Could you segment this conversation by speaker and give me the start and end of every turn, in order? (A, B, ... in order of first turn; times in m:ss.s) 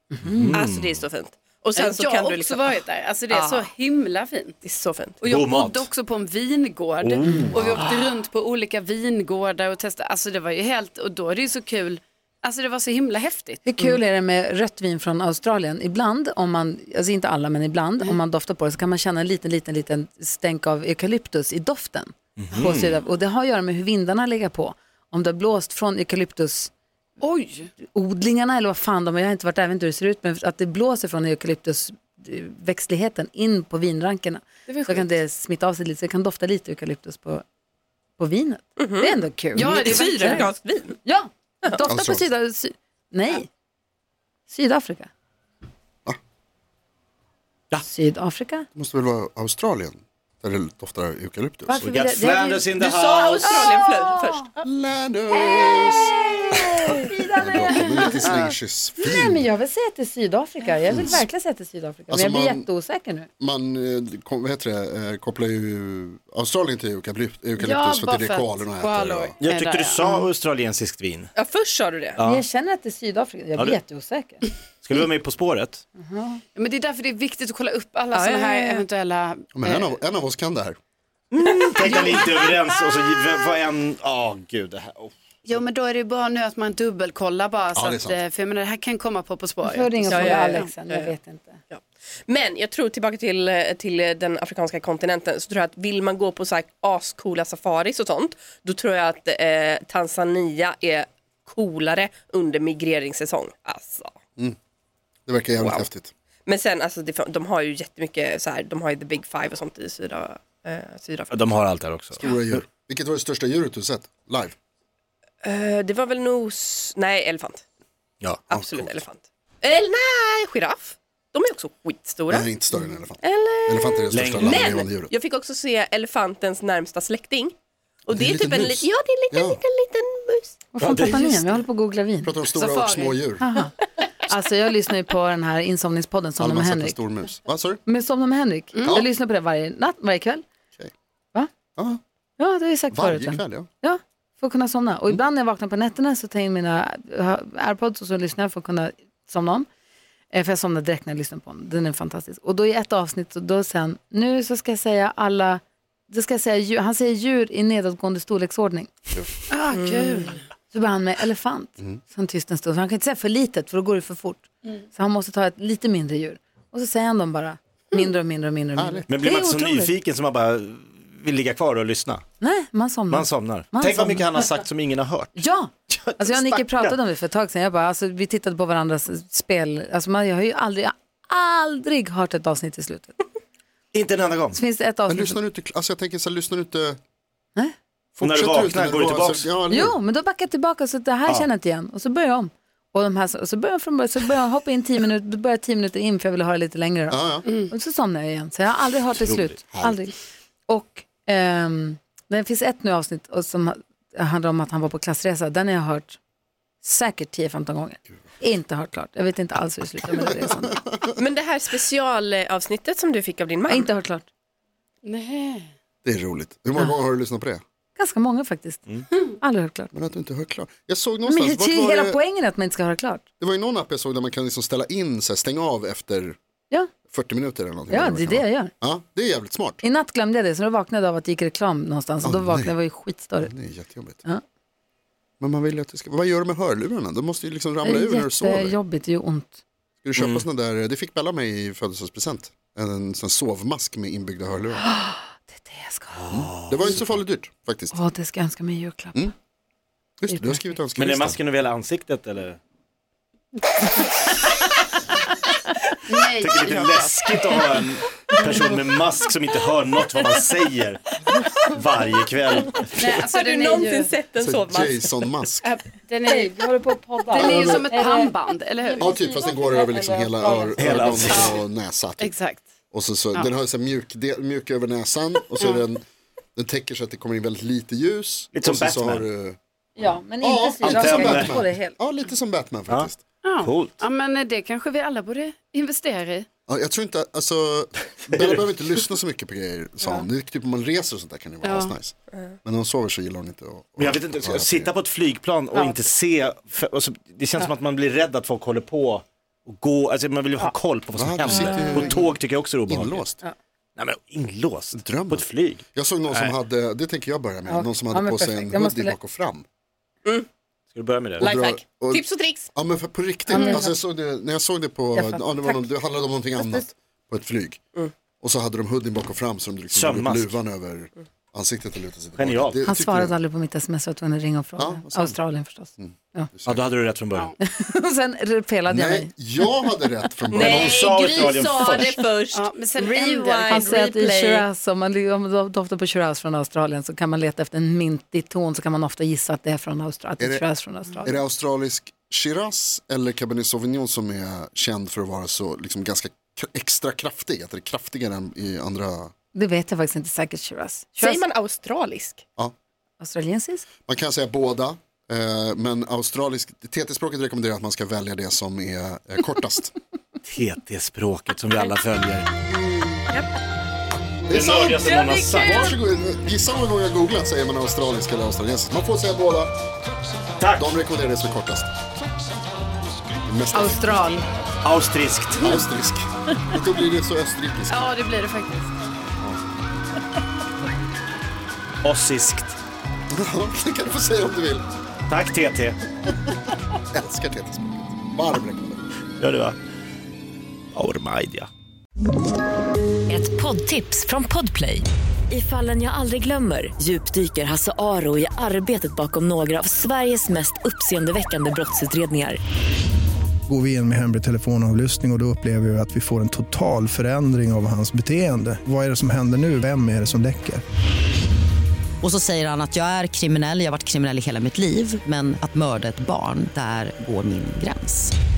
0:00.1-0:00.6 A
0:00.2-0:01.1 B
0:00.5-0:03.7 C
0:01.8-0:04.6 D
0:04.6-0:05.2 C
0:05.2-0:14.0 D
0:05.2-0:05.9 B
0:07.0-0:07.8 B
0:07.2-0:07.5 A
0:13.6-0:26.7 A
0:22.4-0:23.0 B
0:27.2-0:27.7 D
0:27.8-0:37.4 A
0:34.7-0:35.1 D
0:38.2-0:40.5 A
0:38.8-0:41.0 C
0:39.6-0:40.5 D
0:41.0-0:43.5 A
0:41.9-0:42.3 E
0:44.5-0:45.1 A
0:47.9-0:48.7 A
0:48.8-0:51.8 E
0:51.7-0:52.7 A
0:51.8-0:53.6 B
0:52.8-0:54.6 C
0:53.4-0:54.5 A
0:54.6-0:59.5 E
0:55.3-1:03.3 A
1:00.9-1:01.2 E
1:02.1-1:02.7 E
1:03.4-1:09.3 E
1:07.6-1:10.3 D
1:09.4-1:11.3 B
1:11.4-1:12.2 C
1:12.2-1:12.4 B
1:12.2-1:14.5 A
1:14.8-1:15.8 B
1:16.0-1:16.4 A
1:16.5-1:19.9 D
1:18.1-1:18.8 C
1:19.5-1:20.8 E
1:21.3-1:25.1 B
1:21.9-1:22.1 D
1:21.9-1:22.3 C
1:25.4-1:30.7 D
1:27.8-1:28.2 E
1:29.6-1:31.6 A
1:30.1-1:31.1 C
1:31.7-1:44.1 C
1:45.3-1:46.1 E
1:45.6-1:45.9 C
1:46.5-1:51.6 C
1:51.3-1:52.2 B
1:52.2-1:54.5 E
1:55.4-1:57.6 C
1:58.5-1:59.0 E
1:58.5-2:10.6 C
2:02.3-2:05.1 E
2:04.1-2:04.6 B
2:08.1-2:09.6 E
2:10.8-2:12.4 A
2:10.8-2:11.5 B
2:12.2-2:13.4 E
2:12.6-2:13.3 D
2:13.4-2:13.7 A
2:14.3-2:17.0 A
2:16.4-2:17.8 E
2:17.8-2:20.4 A
2:18.7-2:19.0 D
2:22.4-2:29.7 A
2:22.9-2:23.7 E
2:30.3-2:39.1 A
2:39.5-2:40.4 D
2:39.7-2:40.3 C
2:40.7-2:49.9 A
2:48.8-2:49.0 E
2:49.1-2:52.2 B
2:52.4-2:54.5 A
2:53.1-2:57.0 B
2:55.4-3:03.2 A
3:03.9-3:04.6 B
3:04.5-3:05.4 A
3:05.1-3:07.0 E
3:08.2-3:10.0 E
3:08.2-3:09.5 B
3:09.7-3:20.1 A
3:17.1-3:17.5 E
3:19.7-3:20.0 E
3:20.7-3:26.2 A
3:26.8-3:30.8 A
3:30.1-3:31.0 E
3:31.2-3:33.9 C
3:33.7-3:34.3 A
3:35.0-3:35.7 D
3:36.0-3:37.6 E
3:38.0-3:39.9 A
3:39.9-3:42.2 E
3:41.2-3:43.2 A
3:43.4-3:46.4 E
3:47.1-3:49.8 E
3:47.9-3:48.7 A
3:49.8-3:53.5 A
3:52.2-3:52.8 E
3:53.4-3:54.2 E
3:55.4-3:58.8 E
3:57.8-3:59.6 A
4:00.0-4:04.8 E
4:00.2-4:00.4 B
4:04.8-4:06.2 A
4:06.1-4:07.2 B
4:06.3-4:08.0 E
4:07.9-4:09.3 A
4:10.2-4:11.4 E
4:10.3-4:10.6 A
4:11.0-4:12.6 B
4:16.1-4:17.7 D
4:16.3-4:21.0 B
4:21.7-4:23.2 B
4:23.0-4:24.1 D
4:23.2-4:25.1 C
4:24.4-4:25.6 E
4:25.6-4:26.6 D
4:26.2-4:31.4 A
4:27.3-4:29.2 D
4:29.0-4:32.3 E
4:30.8-4:31.6 B
4:31.3-4:31.6 D
4:32.2-4:32.6 D
4:32.9-4:36.0 E
4:36.6-4:39.6 E
4:38.5-4:39.2 B
4:40.0-4:42.0 A
4:40.4-4:43.2 E
4:40.8-4:41.6 B
4:42.9-4:44.0 B
4:43.4-4:46.5 D
4:46.7-4:54.9 E
4:51.6-4:51.9 D
4:54.0-5:03.2 B
5:01.1-5:02.2 E
5:02.9-5:03.4 E
5:04.0-5:06.5 B
5:04.9-5:09.6 E
5:07.7-5:09.2 A
5:10.9-5:11.5 B
5:11.4-5:17.8 E
5:11.4-5:12.7 C
5:13.5-5:14.0 A
5:15.1-5:15.9 A
5:16.6-5:16.8 A
5:18.4-5:23.4 E
5:19.9-5:20.6 B
5:22.4-5:22.8 B
5:22.8-5:26.5 A
5:24.8-5:25.4 E
5:26.0-5:26.8 E
5:26.6-5:27.5 B
5:27.6-5:29.8 A
5:28.9-5:30.9 E
5:30.5-5:34.6 C
5:30.6-5:32.2 B
5:32.5-5:34.1 D
5:33.7-5:41.4 A
5:40.4-5:40.6 E
5:41.2-5:49.3 E
5:49.5-5:51.4 A
5:51.2-5:52.4 C
5:53.2-5:53.9 A
5:54.1-5:59.9 E
6:00.4-6:02.5 B
6:02.7-6:03.2 D
6:04.5-6:09.7 E
6:04.5-6:06.0 B
6:05.1-6:05.7 D
6:10.6-6:10.8 B
6:10.8-6:11.9 E
6:13.5-6:14.2 E
6:13.7-6:14.4 A
6:14.8-6:15.8 B
6:15.6-6:18.1 E
6:17.9-6:18.9 D
6:22.0-6:22.8 B
6:23.3-6:24.9 E
6:25.3-6:26.0 B
6:27.1-6:29.0 E
6:29.4-6:29.8 B
6:30.9-6:31.7 B
6:33.3-6:42.6 F
6:43.7-6:50.8 G
6:52.2-6:58.3 H